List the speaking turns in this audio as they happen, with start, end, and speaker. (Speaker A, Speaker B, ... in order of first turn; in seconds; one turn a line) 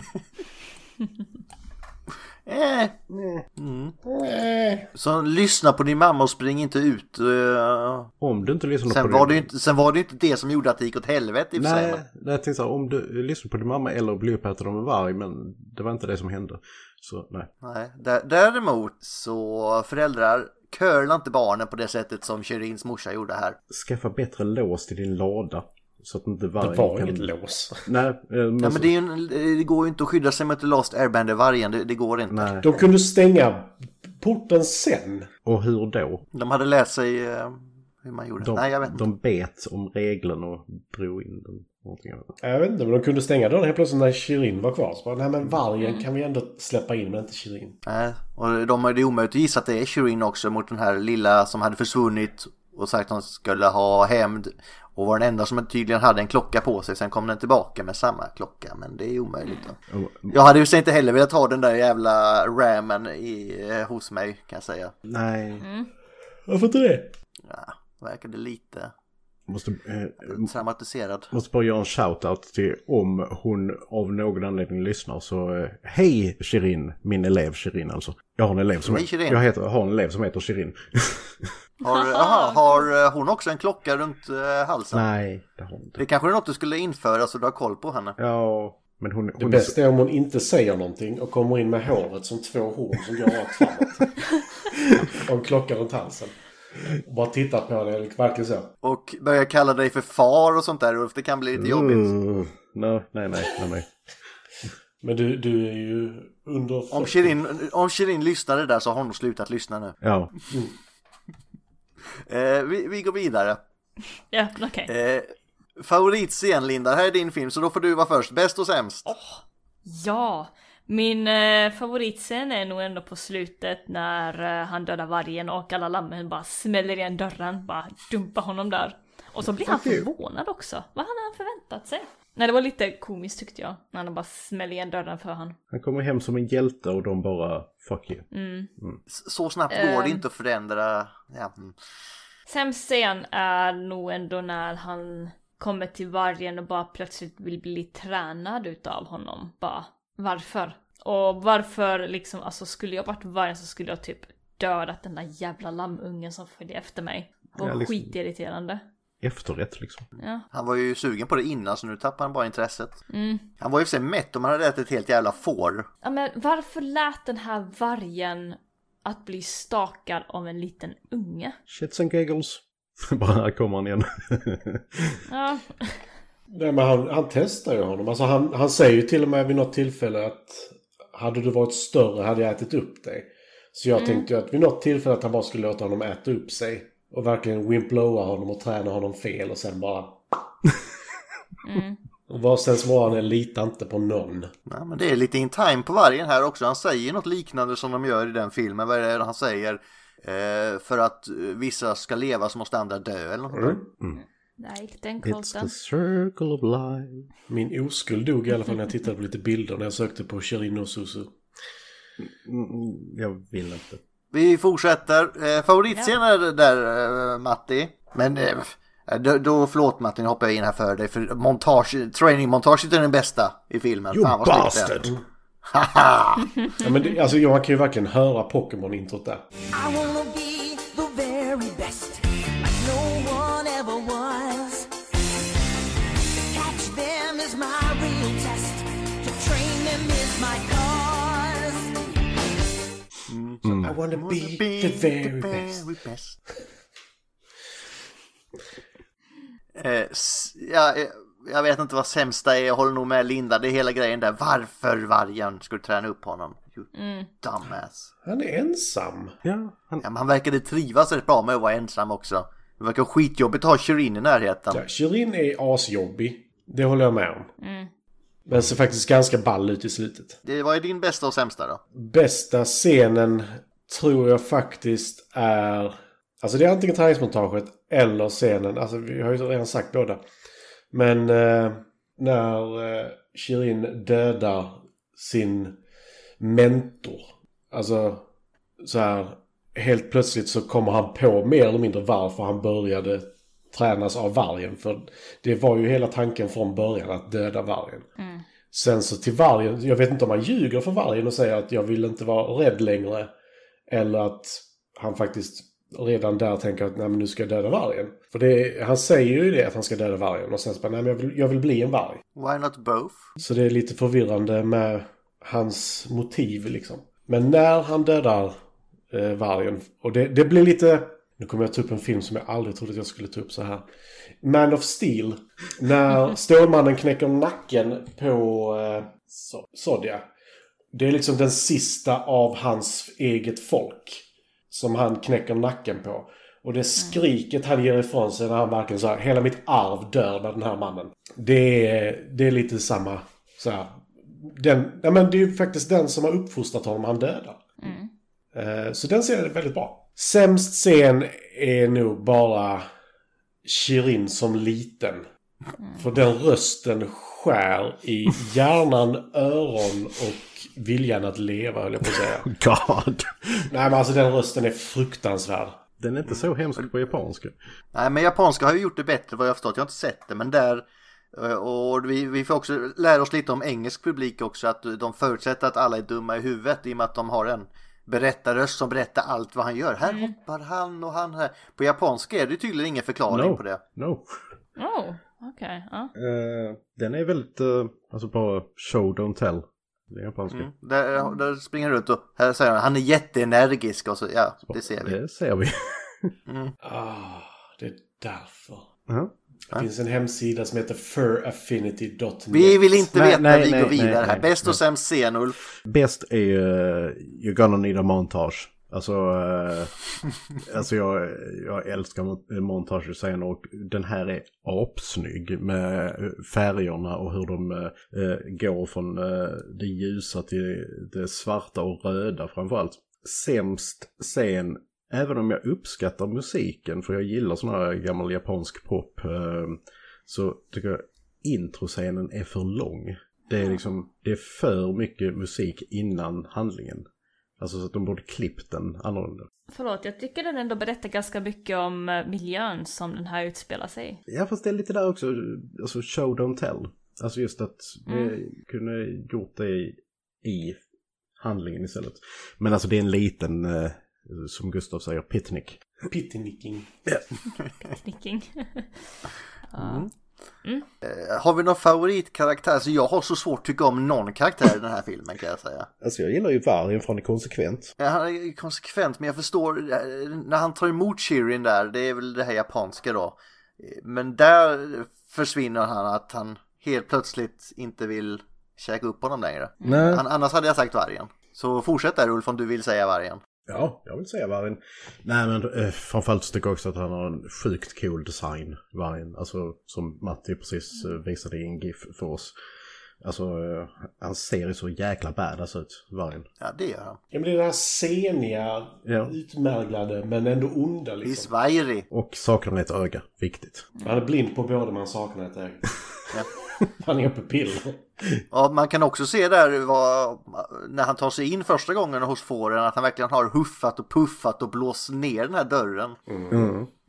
Speaker A: 2.5-3.0
Speaker B: 3.1-3.4
Speaker A: 3.6-4.0
Speaker C: 4.1-4.9
Speaker A: 4.9-8.1
Speaker B: 8.2-9.5
Speaker A: 8.9-12.0
Speaker B: 11.6-17.5
Speaker A: 17.6-23.6
Speaker B: 23.7-27.3
Speaker C: 26.6-27.9
Speaker B: 27.9-28.9
Speaker A: 28.6-32.6
Speaker B: 32.3-32.7
Speaker C: 32.6-35.3
Speaker B: 35.5-36.2
Speaker A: 36.3-39.0
Speaker B: 38.4-42.3
Speaker C: 42.4-47.8
Speaker A: 47.9-59.8
Speaker B: 59.9-60.4
Speaker A: 60.3-64.9
Speaker B: 65.1-65.7
Speaker D: 65.6-65.9
Speaker C: 66.5-67.1
Speaker A: 67.5-68.9
Speaker B: 69.5-70.5
Speaker A: 70.3-71.3
Speaker B: 71.3-81.5
Speaker A: 78.8-79.4
Speaker A: 81.8-85.0
Speaker D: 81.9-82.9
Speaker B: 84.9-86.0
Speaker A: 86.0-88.2
Speaker B: 88.2-89.8
Speaker C: 89.4-94.2
Speaker C: 95.2-96.3
Speaker C: 96.9-98.7
Speaker A: 98.8-102.1
Speaker B: 101.5-103.9
Speaker C: 105.0-107.3
Speaker A: 106.9-110.0
Speaker B: 110.0-110.3
Speaker A: 112.3-113.6
Speaker D: 114.3-114.9
Speaker A: 114.9-119.1
Speaker D: 119.1-135.6
Speaker B: 129.6-130.1
Speaker B: 135.7-138.3
Speaker D: 138.3-138.7
Speaker A: 139.1-141.8
Speaker D: 139.7-140.2
Speaker D: 142.5-158.8
Speaker B: 157.6-158.2
Speaker B: 159.2-160.1
Speaker D: 160.2-160.4
Speaker A: 160.5-163.0
Speaker D: 163.1-163.5
Speaker A: 163.6-165.9
Speaker D: 166.0-171.6
Speaker B: 171.7-175.2
Speaker D: 175.3-176.0
Speaker C: 176.5-190.2
Speaker D: 183.9-184.3
Speaker D: 191.7-192.0
Speaker C: 192.3-194.5
Speaker A: 194.7-203.8
Speaker C: 203.5-203.8
Speaker D: 204.2-205.7
Speaker B: 205.2-207.3
Speaker C: 207.5-211.3
Speaker B: 212.2-214.0
Speaker A: 214.3-224.9
Speaker B: 224.1-225.2
Speaker A: 225.7-226.6
Speaker C: 226.8-229.4
Speaker E: 229.7-234.9
Speaker E: 236.5-242.0
Speaker A: 243.3-246.4
Speaker B: 243.6-243.9
Speaker C: 243.8-245.9
Speaker A: 249.8-256.9
Speaker D: 256.9-257.3
Speaker A: 257.4-258.1
Speaker C: 258.3-259.4
Speaker B: 259.4-260.0
Speaker A: 260.0-264.8
Speaker C: 264.7-267.5
Speaker D: 267.6-267.9
Speaker C: 268.5-270.4
Speaker A: 270.4-271.8
Speaker C: 272.0-280.2
Speaker C: 280.9-285.8
Speaker C: 286.4-288.2
Speaker C: 288.8-298.1
Speaker D: 298.2-298.4
Speaker C: 298.7-303.3
Speaker C: 303.9-312.2
Speaker A: 312.4-313.3
Speaker C: 313.4-318.6
Speaker C: 319.1-323.9
Speaker C: 324.4-329.1
Speaker C: 329.7-330.2
Speaker C: 330.9-347.6
Speaker D: 347.8-348.1
Speaker C: 348.5-352.9
Speaker C: 353.6-355.3
Speaker D: 355.8-356.1
Speaker C: 356.0-362.5
Speaker B: 362.1-363.7
Speaker C: 363.7-365.8
Speaker B: 366.0-367.6
Speaker A: 367.9-383.8
Speaker D: 380.1-380.3
Speaker B: 383.3-384.4
Speaker D: 384.8-386.1
Speaker B: 386.1-390.7
Speaker A: 390.5-395.2
Speaker B: 394.7-396.3
Speaker A: 396.5-396.7
Speaker C: 396.8-398.9
Speaker C: 399.7-402.9
Speaker A: 402.5-405.6
Speaker B: 403.1-404.8
Speaker B: 405.9-409.9
Speaker B: 410.6-437.1
Speaker B: 437.6-439.5
Speaker D: 439.7-444.2
Speaker B: 444.3-450.8
Speaker D: 448.1-448.4
Speaker B: 451.4-455.8
Speaker C: 456.1-456.9
Speaker D: 457.8-459.0
Speaker D: 459.7-460.1
Speaker A: 459.8-460.1
Speaker A: 461.0-465.9
Speaker B: 466.0-467.9
Speaker A: 468.0-483.4
Speaker B: 479.8-480.2
Speaker B: 483.7-492.5
Speaker B: 493.2-496.5
Speaker A: 496.6-497.2
Speaker C: 497.3-501.5
Speaker B: 499.1-499.4
Speaker A: 501.2-502.1
Speaker B: 502.1-503.9
Speaker C: 504.0-505.9
Speaker C: 506.9-508.4
Speaker A: 508.5-516.2
Speaker C: 516.3-516.7
Speaker B: 516.5-516.9